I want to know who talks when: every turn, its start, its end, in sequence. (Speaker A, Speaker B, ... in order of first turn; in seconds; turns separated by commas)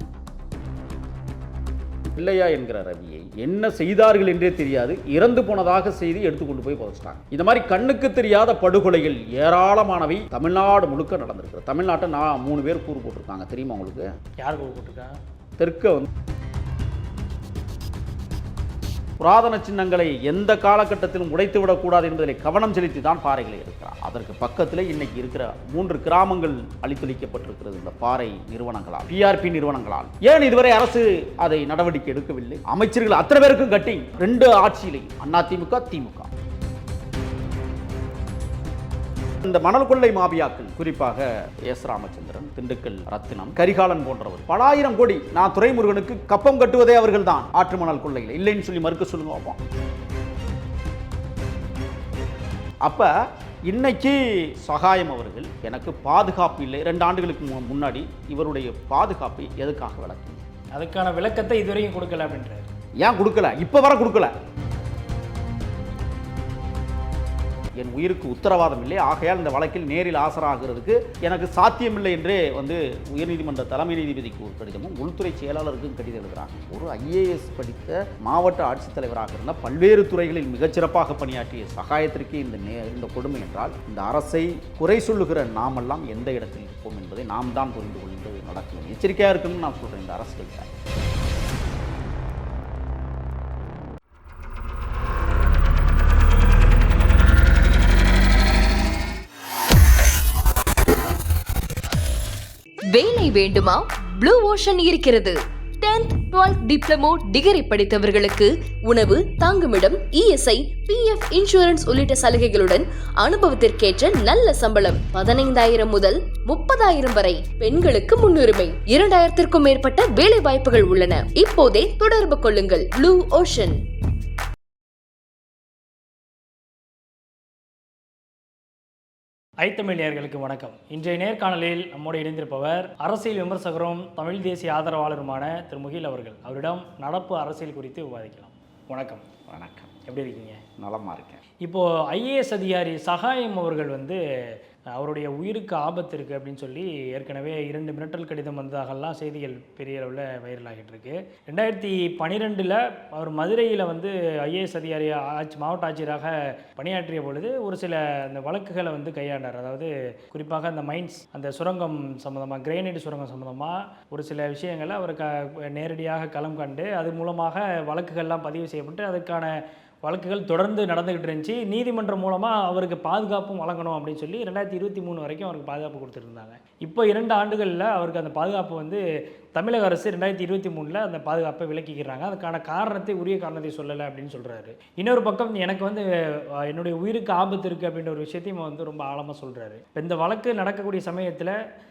Speaker A: 2.1-14.1, Speaker B: 14.4-15.2, Speaker A: 15.6-16.1, Speaker A: 19.2-36.3, Speaker A: 39.4-49.6, Speaker A: 52.8-53.1, Speaker A: 53.7-60.4, Speaker B: 60.7-62.7, Speaker A: 63.0-64.3, Speaker A: 67.8-90.7, Speaker C: 102.9-123.8, Speaker B: 129.6-139.2, Speaker A: 139.5-139.9, Speaker B: 140.1-140.6, Speaker A: 140.8-141.4, Speaker B: 141.6-144.2, Speaker B: 144.9-179.0, Speaker B: 179.5-186.1, Speaker B: 186.7-191.6